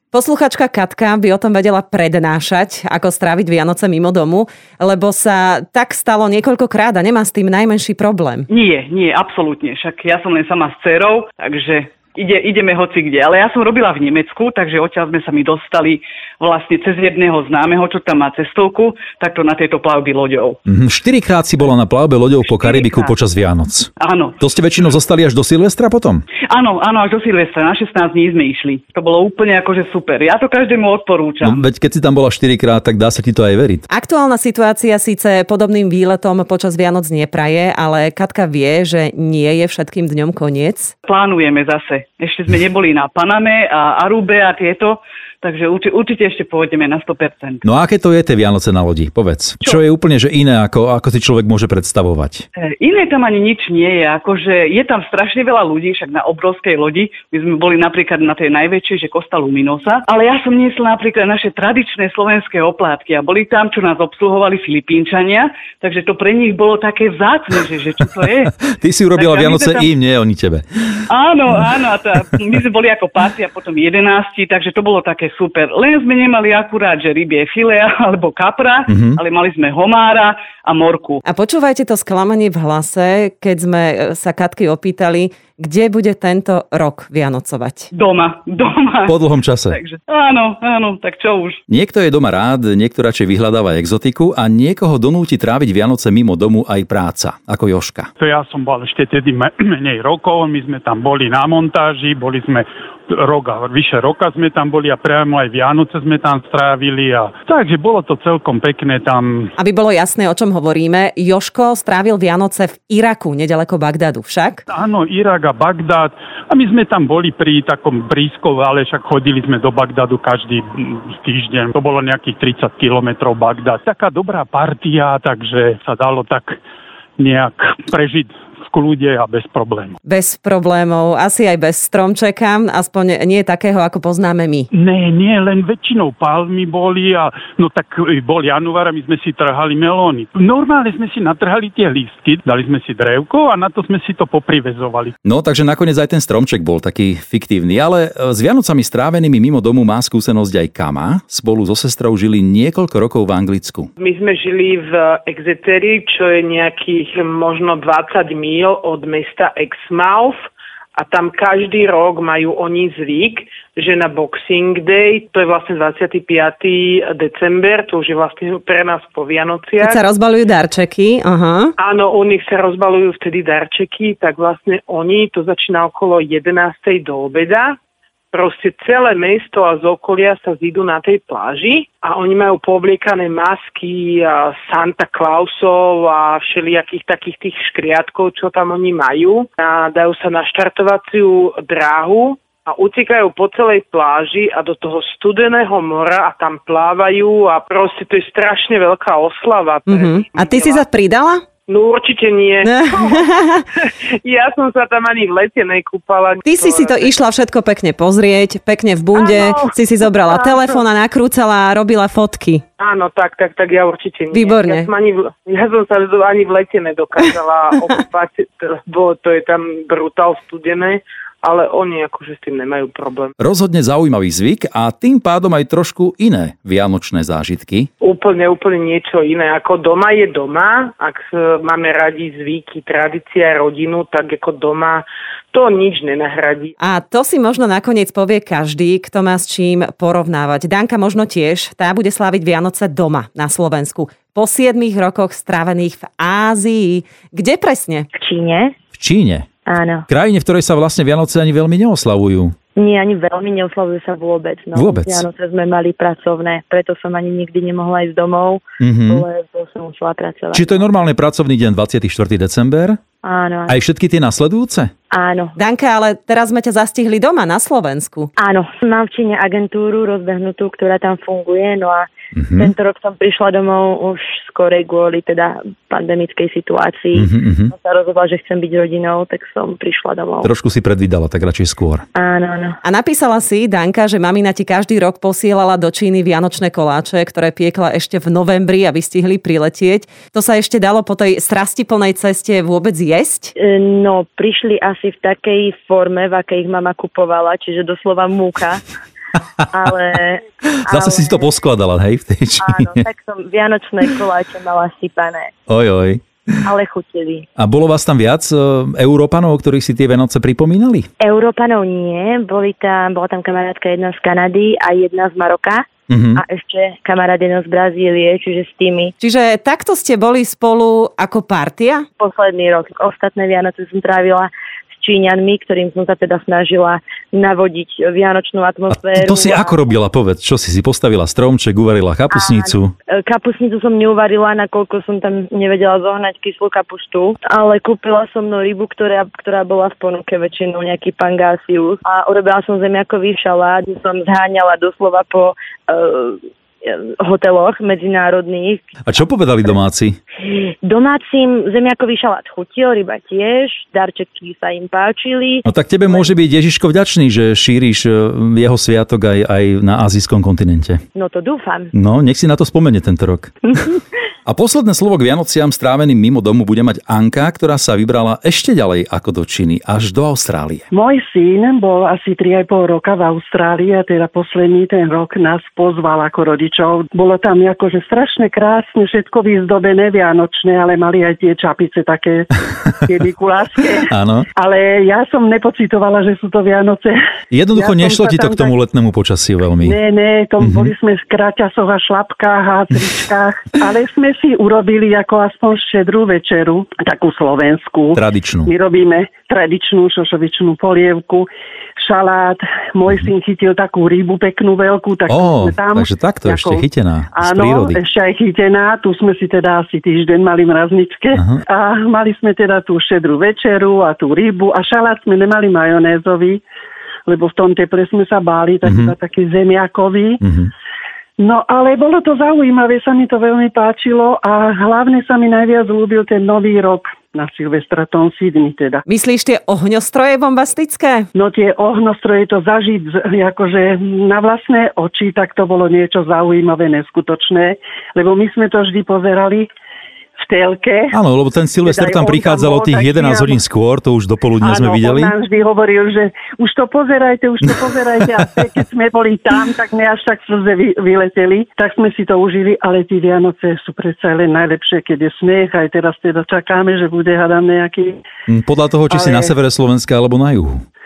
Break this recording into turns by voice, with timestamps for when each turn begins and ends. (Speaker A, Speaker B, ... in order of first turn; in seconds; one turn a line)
Speaker A: 0.1-8.5
Speaker B: 8.5-20.6
Speaker C: 20.7-26.2
Speaker B: 22.5-23.1
Speaker B: 24.0-24.4
Speaker B: 26.5-31.6
Speaker C: 31.4-33.9
Speaker A: 33.9-40.9
Speaker B: 41.0-47.6
Speaker C: 47.6-52.5
Speaker B: 52.6-68.5
Speaker C: 68.7-71.0
Speaker B: 69.2-69.9
Speaker B: 71.1-81.2
Speaker C: 78.9-79.2
Speaker A: 81.2-87.9
Speaker B: 87.9-89.2
Speaker C: 89.1-89.8
Speaker B: 89.7-91.6
Speaker C: 91.7-98.1
Speaker D: 98.2-109.5
Speaker A: 109.6-114.7
Speaker D: 114.7-126.6
Speaker D: 127.2-129.9
Speaker A: 130.1-134.7
Speaker D: 134.7-145.1
Speaker C: 145.2-153.9
Speaker E: 154.0-160.4
Speaker E: 161.0-170.0
Speaker A: 169.8-171.7
Speaker E: 171.8-177.8
Speaker E: 178.3-200.8
Speaker A: 199.9-201.4
Speaker E: 201.7-207.1
Speaker A: 202.6-203.6
Speaker A: 206.4-212.7
Speaker E: 209.1-210.8
Speaker E: 212.8-223.3
Speaker A: 214.3-214.9
Speaker C: 223.4-227.9
Speaker E: 228.0-236.7
Speaker A: 236.8-248.1
Speaker F: 248.2-248.7
Speaker C: 248.9-249.5
Speaker F: 249.7-250.1
Speaker C: 250.1-252.6
Speaker F: 252.8-260.9
Speaker C: 254.7-255.2
Speaker C: 258.8-259.2
Speaker C: 260.5-263.0
Speaker F: 263.2-263.8
Speaker C: 263.7-264.9
Speaker F: 265.1-265.6
Speaker A: 265.6-268.3
Speaker F: 268.4-280.5
Speaker C: 272.3-272.7
Speaker C: 277.1-277.7
Speaker C: 280.4-282.1
Speaker F: 282.1-282.8
Speaker A: 282.8-293.5
Speaker F: 293.6-298.9
Speaker F: 299.7-301.4
Speaker C: 300.9-303.0
Speaker F: 302.6-305.5
Speaker C: 305.7-306.6
Speaker F: 306.6-307.5
Speaker C: 307.6-311.1
Speaker F: 311.2-315.9
Speaker C: 316.1-316.4
Speaker F: 316.4-319.1
Speaker A: 319.2-322.1
Speaker F: 322.2-329.8
Speaker C: 328.9-332.9
Speaker F: 332.3-348.8
Speaker C: 349.1-350.2
Speaker F: 350.4-356.3
Speaker C: 355.6-361.0
Speaker F: 361.2-361.9
Speaker C: 361.9-363.9
Speaker C: 364.5-370.9
Speaker G: 370.9-387.2
Speaker C: 384.1-384.4
Speaker C: 387.5-390.0
Speaker G: 387.8-388.7
Speaker G: 389.8-406.8
Speaker C: 390.6-390.9
Speaker C: 398.2-398.7
Speaker C: 405.3-408.0
Speaker G: 407.4-416.6
Speaker G: 417.3-420.4
Speaker C: 418.9-419.1
Speaker C: 420.4-420.7
Speaker G: 421.4-429.0
Speaker A: 429.1-431.3
Speaker G: 431.4-439.7
Speaker G: 440.4-441.1
Speaker C: 441.1-445.3
Speaker G: 441.8-443.6
Speaker G: 444.6-458.2
Speaker C: 458.5-460.8
Speaker G: 459.1-459.5